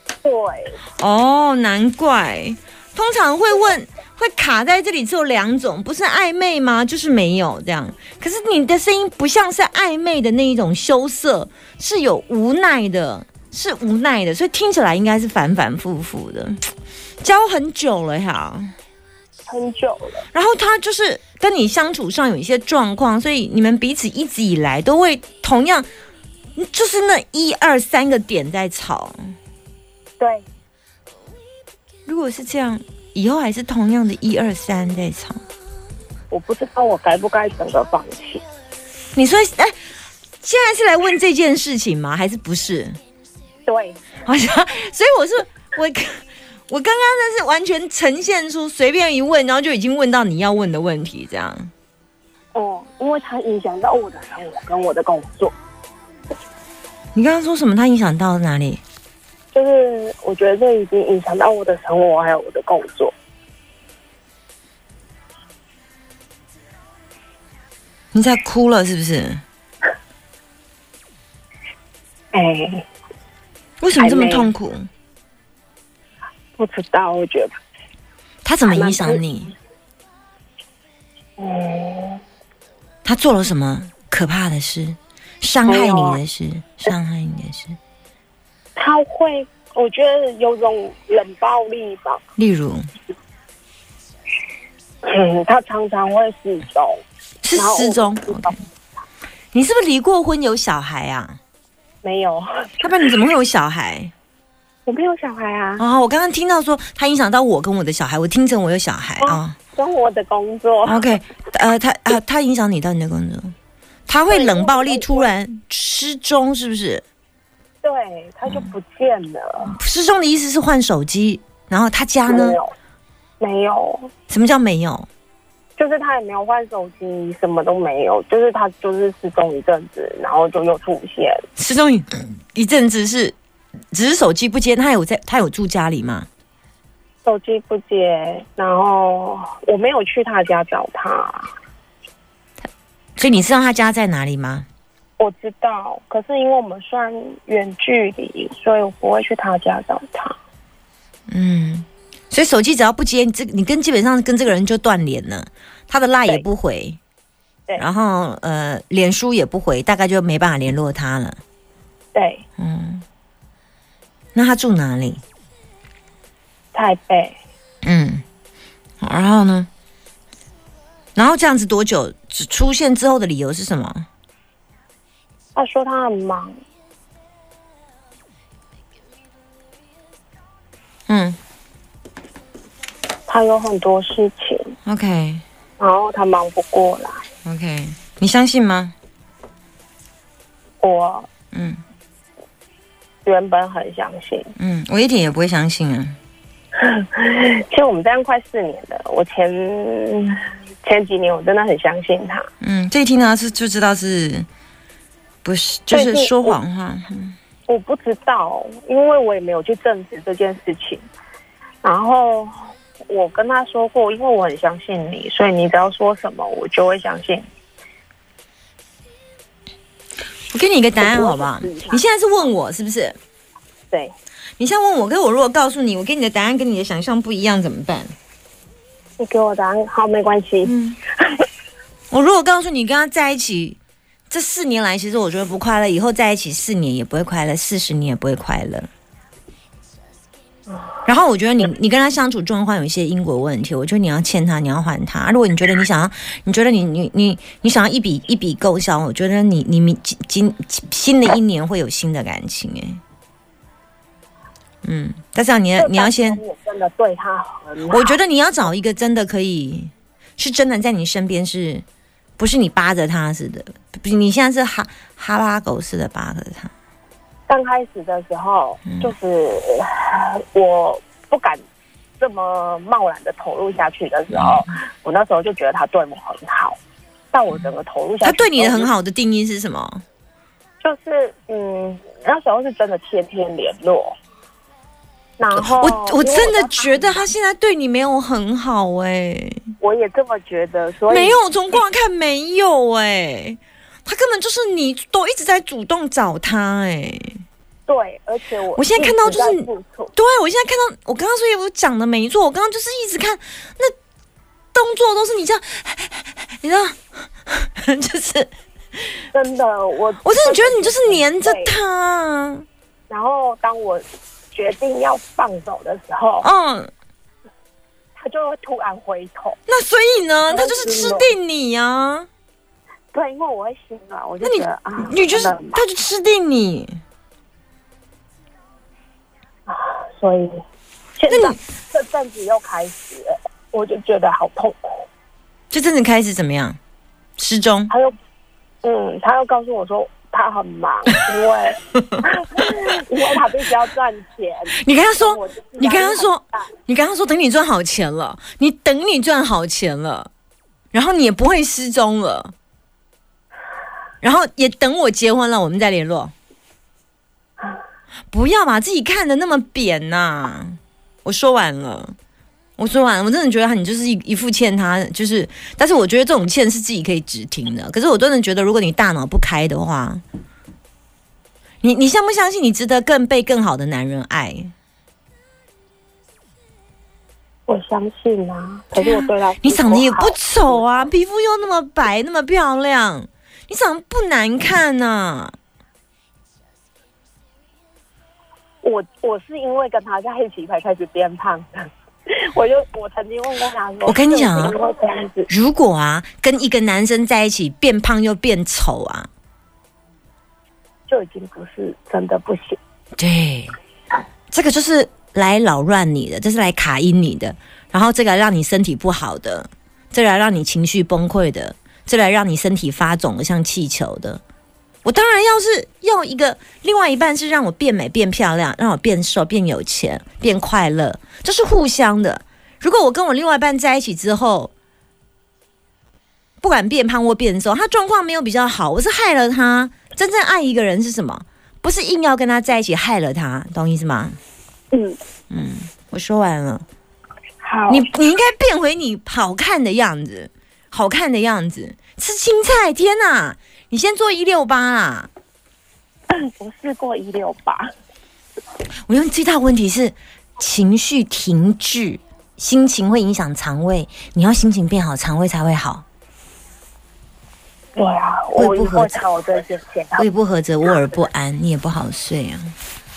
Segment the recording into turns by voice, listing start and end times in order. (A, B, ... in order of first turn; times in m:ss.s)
0:00.2-0:00.8 A
0:01.0-0:16.6 B
0:17.2-0:18.7 B
0:19.5-0:20.2 A
0:20.3-0:25.9 B
0:26.6-0:29.2 B
0:30.2-0:30.4 A
0:32.1-0:35.4 B
0:36.3-0:38.4 A
0:39.1-0:39.7 B
0:40.4-0:43.0 B
0:43.6-0:44.0 A
0:44.2-0:51.7 B
0:52.5-0:55.5 A
0:57.1-0:58.8 B
0:59.5-1:03.1 A
1:08.1-1:09.4 B
1:12.3-1:12.8 A
1:13.8-1:14.9 B
1:14.0-1:14.5 A
1:16.6-1:17.5 A
1:18.4-1:19.5 B
1:18.7-1:19.2 A
1:21.4-1:22.2 A
1:23.0-1:27.8 B
1:25.7-1:26.2 A
1:28.7-1:32.2 A
1:32.4-1:32.9 B
1:35.0-1:37.0 A
1:37.4-1:38.5 B
1:37.5-1:38.6 A
1:39.5-1:41.4 B
1:42.0-1:42.7 A
1:42.8-1:44.1 B
1:44.8-1:45.8 A
1:45.8-1:49.6 B
1:49.2-1:51.0 A
1:50.8-1:53.5 B
1:54.1-1:57.0 B
1:54.3-1:55.3 A
1:57.8-1:59.8 A
1:59.7-2:02.6 B
2:02.3-2:02.7 A
2:03.4-2:04.1 A
2:04.3-2:05.1 B
2:05.8-2:11.4 A
2:11.6-2:13.3 B
2:13.9-2:16.3 B
2:17.2-2:21.5 A
2:23.2-2:24.6 B
2:25.2-2:30.4 A
2:31.3-2:37.0 B
2:37.8-2:41.4 B
2:42.1-2:42.4 A
2:42.6-2:43.0 B
2:44.3-2:45.2 B
2:46.7-2:47.4 A
2:47.8-2:48.2 B
2:49.0-2:49.7 B
2:51.2-2:54.0 B
2:55.5-2:56.6 A
3:01.1-3:01.4 B
3:03.3-3:04.7 A
3:04.8-3:05.4 B
3:05.8-3:07.2 A
3:07.4-3:08.9 B
3:10.8-3:11.3 A
3:11.5-3:11.8 B
3:13.2-3:14.5 A
3:14.6-3:16.2 B
3:16.8-3:22.5 A
3:22.6-3:24.5 B
3:25.4-3:27.4 B
3:25.9-3:26.6 A
3:27.7-3:31.0 A
3:31.8-3:37.5 A
3:40.5-3:43.2 B
3:41.0-3:42.0 A
3:44.6-3:48.1 B
3:49.2-3:51.4 A
3:50.6-3:51.0 B
3:52.1-3:53.8 B
3:54.3-3:58.9 B
4:00.7-4:01.0 A
4:01.0-4:13.0 B
4:14.8-4:16.4 B
4:15.8-4:18.2 A
4:17.9-4:21.8 B
4:22.4-4:26.7 B
4:27.5-4:31.6 A
4:28.8-4:29.1 B
4:32.2-4:36.8 A
4:34.3-4:34.6 B
4:37.3-4:38.9 A
4:38.2-4:40.0 B
4:40.8-4:44.1 A
4:45.4-4:47.2 A
4:45.5-4:49.6 B
4:49.8-4:51.4 A
4:51.1-4:57.4 B
4:57.8-5:00.1 A
4:58.7-5:03.9 B
5:04.7-5:09.2 B
5:09.3-5:11.7 A
5:10.2-5:12.6 B
5:13.1-5:16.5 A
5:16.4-5:16.9 B
5:18.2-5:19.6 A
5:19.7-5:22.3 B
5:20.5-5:21.3 A
5:23.1-5:25.8 A
5:24.4-5:27.0 B
5:29.7-5:30.6 A
5:31.2-5:35.0 A
5:31.3-5:31.6 B
5:35.7-5:36.8 B
5:37.4-5:37.9 B
5:37.9-5:38.1 A
5:38.8-5:46.6 A
5:44.8-5:50.3 B
5:50.9-5:52.5 B
5:54.2-5:56.3 B
5:58.3-6:02.1 B
6:02.8-6:10.2 B
6:11.8-6:14.7 B
6:17.7-6:21.0 A
6:18.9-6:25.6 B
6:28.8-6:35.5 A
6:34.0-6:34.8 B
6:35.5-6:39.3 B
6:41.1-6:42.8 A
6:43.2-6:43.8 B
6:44.5-6:54.4 B
6:55.0-7:04.7 B
7:06.6-7:14.4 B
7:14.9-7:15.2 A
7:15.5-7:16.8 B
7:17.6-7:18.1 A
7:17.9-7:25.3 B
7:26.3-7:27.9 A
7:29.1-7:36.0 B
7:38.0-7:40.3 A
7:38.5-7:39.2 B
7:40.2-7:42.7 B